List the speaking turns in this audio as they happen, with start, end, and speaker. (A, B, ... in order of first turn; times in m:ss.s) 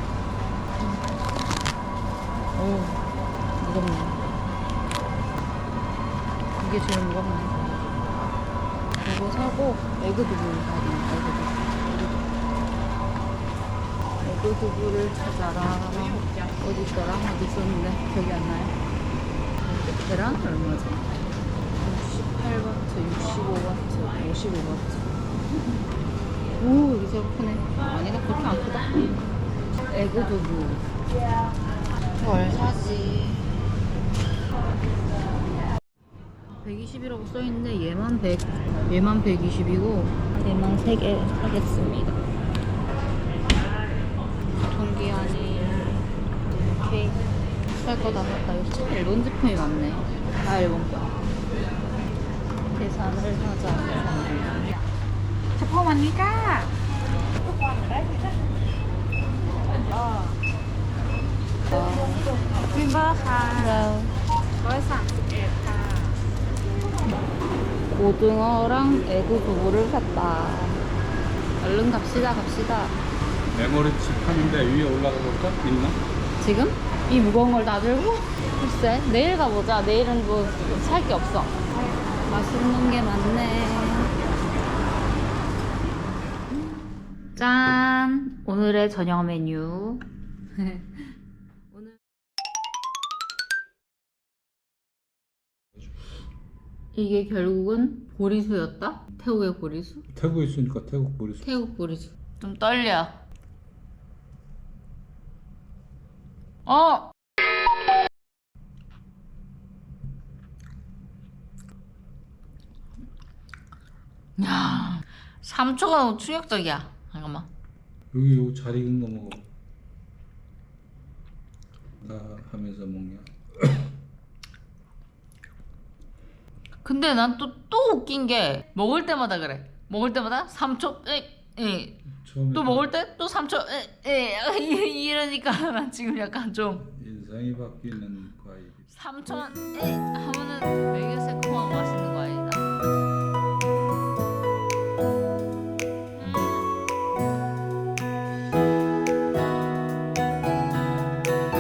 0:00.8-0:01.1 A
0:02.5-0:03.0 A
0:03.6-0:04.2 A
0:06.6-0:08.1 A
0:09.0-0:12.3 A
0:14.2-0:18.8 A
0:19.6-0:21.2 A
0:21.8-0:25.1 A
0:26.6-0:29.2 A
0:29.8-0:30.8 A
0:32.2-0:33.5 A
0:36.6-0:42.2 A
0:44.5-0:45.9 A
0:46.7-0:47.2 A
0:47.8-0:51.2 A
0:52.7-0:54.7 A
0:55.6-0:56.7 A
1:01.7-1:04.1 A
1:07.9-1:10.8 A
1:11.6-1:13.0 A
1:13.5-1:16.0 B
1:16.4-1:21.6 A
1:22.3-1:24.2 A
1:27.4-1:30.0 A
1:30.6-1:31.0 A
1:36.9-1:40.0 A
1:40.1-1:41.6 B
1:41.4-1:43.2 A
1:46.7-1:47.1 A
1:54.4-1:57.5 A
1:58.1-1:59.4 B
2:02.0-2:03.9 B
2:06.8-2:16.9 A
2:12.2-2:12.9 B
2:16.9-2:18.9 B
2:18.9-2:22.6 A
2:26.2-2:26.7 A